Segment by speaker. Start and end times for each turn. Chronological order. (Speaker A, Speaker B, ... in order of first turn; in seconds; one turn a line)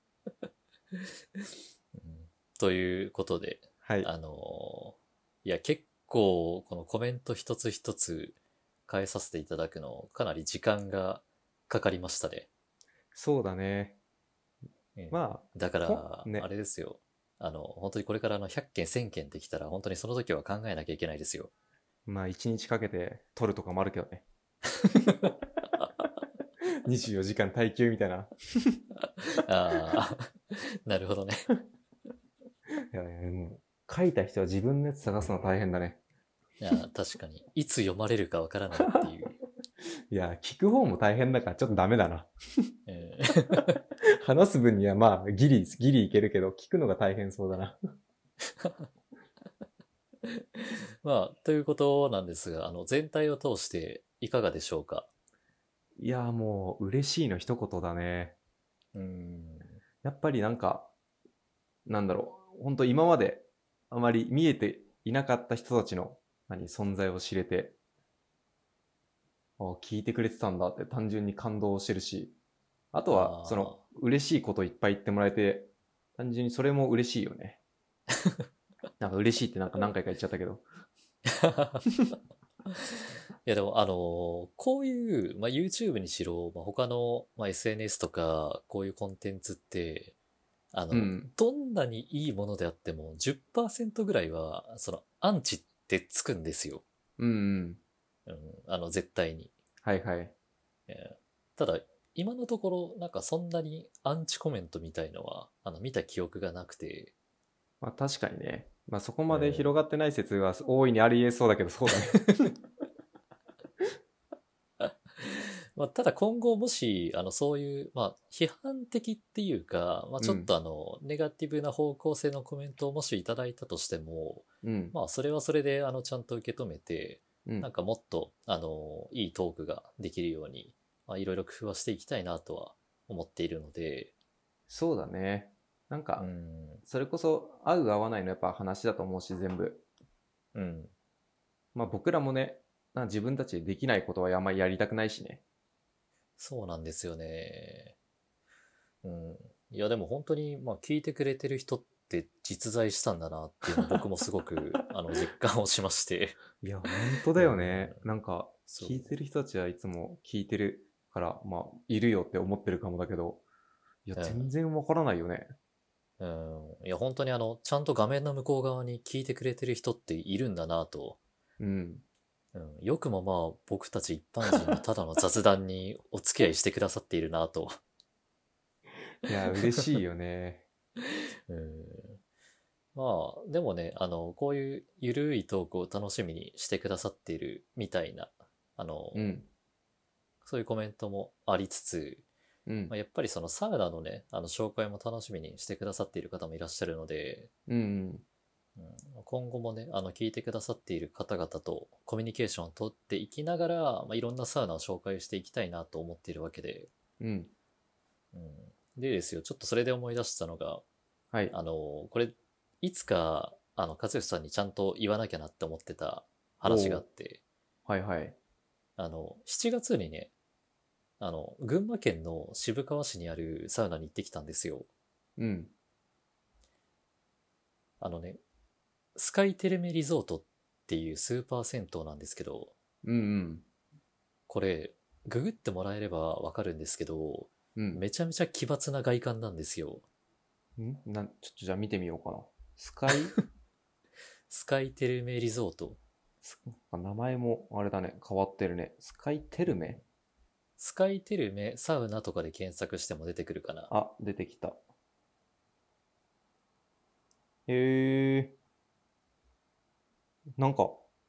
Speaker A: 1.9-8.4
Speaker B: 3.8-4.1
Speaker A: 8.9-12.5
Speaker B: 13.1-14.0
Speaker A: 15.0-21.5
Speaker B: 15.1-16.5
Speaker B: 22.1-24.3
Speaker A: 24.8-25.3
Speaker B: 26.9-28.8
Speaker A: 29.3-31.5
Speaker B: 32.9-36.0
Speaker A: 36.6-39.4
Speaker B: 40.1-42.7
Speaker A: 42.9-43.8
Speaker B: 44.2-47.8
Speaker A: 48.6-48.9
Speaker A: 50.2-55.1
Speaker B: 56.0-58.4
Speaker A: 58.9-59.8
Speaker B: 60.0-60.9
Speaker B: 61.9-67.8
Speaker B: 69.6-72.3
Speaker B: 72.9-77.6
Speaker A: 73.1-73.8
Speaker B: 79.0-80.7
Speaker A: 81.3-81.9
Speaker A: 83.5-90.2
Speaker A: 90.7-96.8
Speaker B: 90.9-91.3
Speaker B: 97.2-97.8
Speaker A: 98.3-99.5
Speaker B: 99.8-100.3
Speaker A: 100.9-107.1
Speaker B: 107.8-112.2
Speaker A: 109.3-109.7
Speaker A: 114.8-134.1
Speaker B: 120.2-120.5
Speaker B: 124.6-125.0
Speaker B: 134.7-136.3
Speaker A: 136.2-136.8
Speaker B: 136.8-139.8
Speaker A: 140.5-140.9
Speaker B: 141.8-145.4
Speaker A: 146.4-148.0
Speaker A: 149.0-156.4
Speaker B: 156.6-163.4
Speaker A: 157.4-158.1
Speaker A: 158.7-159.1
Speaker B: 164.1-165.5
Speaker A: 164.2-164.5
Speaker A: 166.2-171.2
Speaker B: 171.6-172.1
Speaker A: 172.5-177.8
Speaker B: 179.2-180.7
Speaker A: 181.5-182.2
Speaker A: 182.9-189.4
Speaker B: 189.2-189.5
Speaker A: 190.4-192.3
Speaker B: 192.7-192.9
Speaker A: 192.9-197.5
Speaker B: 197.7-198.2
Speaker A: 198.8-206.9
Speaker B: 207.2-207.5
Speaker A: 208.3-210.8
Speaker A: 211.5-217.4
Speaker B: 216.6-217.1
Speaker B: 217.9-218.4
Speaker A: 219.0-220.3
Speaker A: 221.2-224.9
Speaker B: 225.4-225.7
Speaker A: 228.0-228.4
Speaker A: 229.2-232.7
Speaker B: 233.0-233.7
Speaker A: 234.5-240.0
Speaker B: 237.8-238.0
Speaker B: 240.8-243.4
Speaker A: 244.5-246.0
Speaker B: 246.4-250.0
Speaker A: 250.8-253.9
Speaker B: 253.9-254.8
Speaker B: 257.7-258.6
Speaker B: 260.6-261.0